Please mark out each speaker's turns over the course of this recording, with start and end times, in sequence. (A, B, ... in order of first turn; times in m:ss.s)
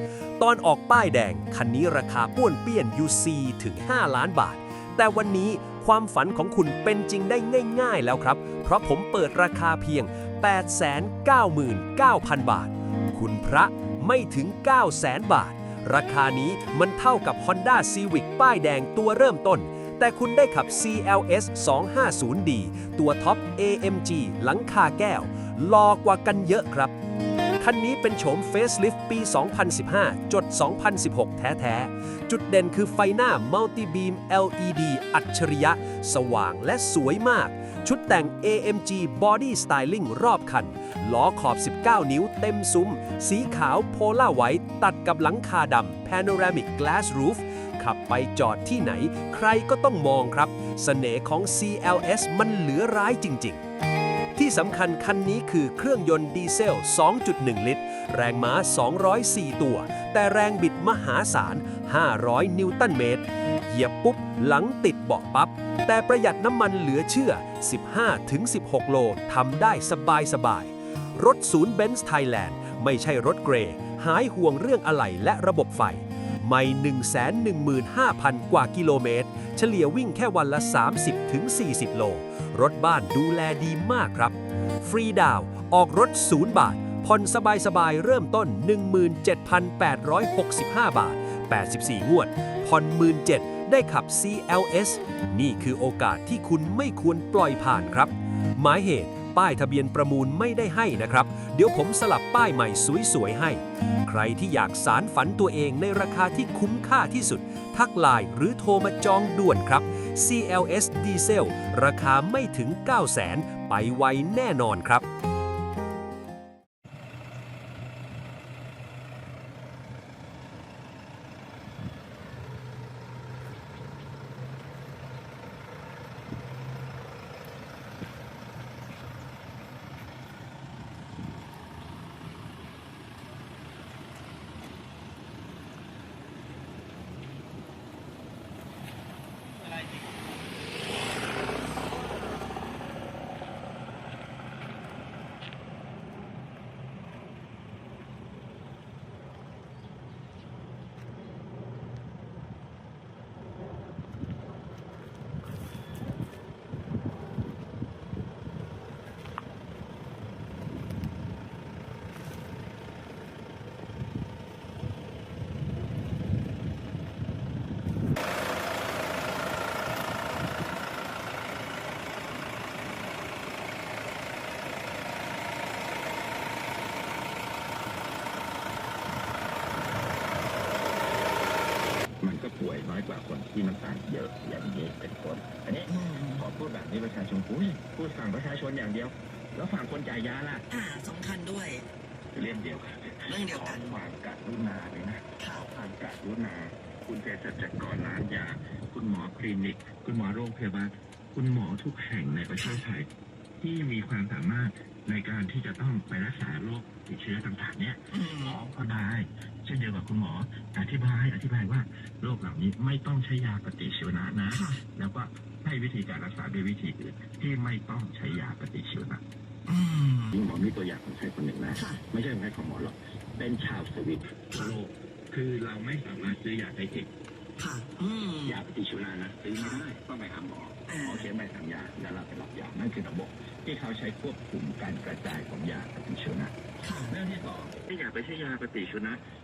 0:00.4-0:26.9 A
0:27.6-0:53.6 A
0:54.4-1:55.0 A
3:02.2-3:10.7 B
3:05.9-3:06.4 C
3:10.7-3:11.9 C
3:12.3-3:23.1 B
3:13.2-3:14.0 C
3:15.4-3:15.7 C
3:22.6-3:22.8 C
3:23.6-3:39.2 B
3:28.1-3:28.6 C
3:34.5-3:34.8 C
3:39.7-3:40.4 C
3:40.3-3:47.1 B
3:41.8-3:42.0 C
3:47.6-3:48.6 C
3:48.4-3:56.6 B
3:49.5-3:49.8 C
3:50.9-3:51.3 C
3:56.8-3:57.1 C
3:57.1-3:59.2 B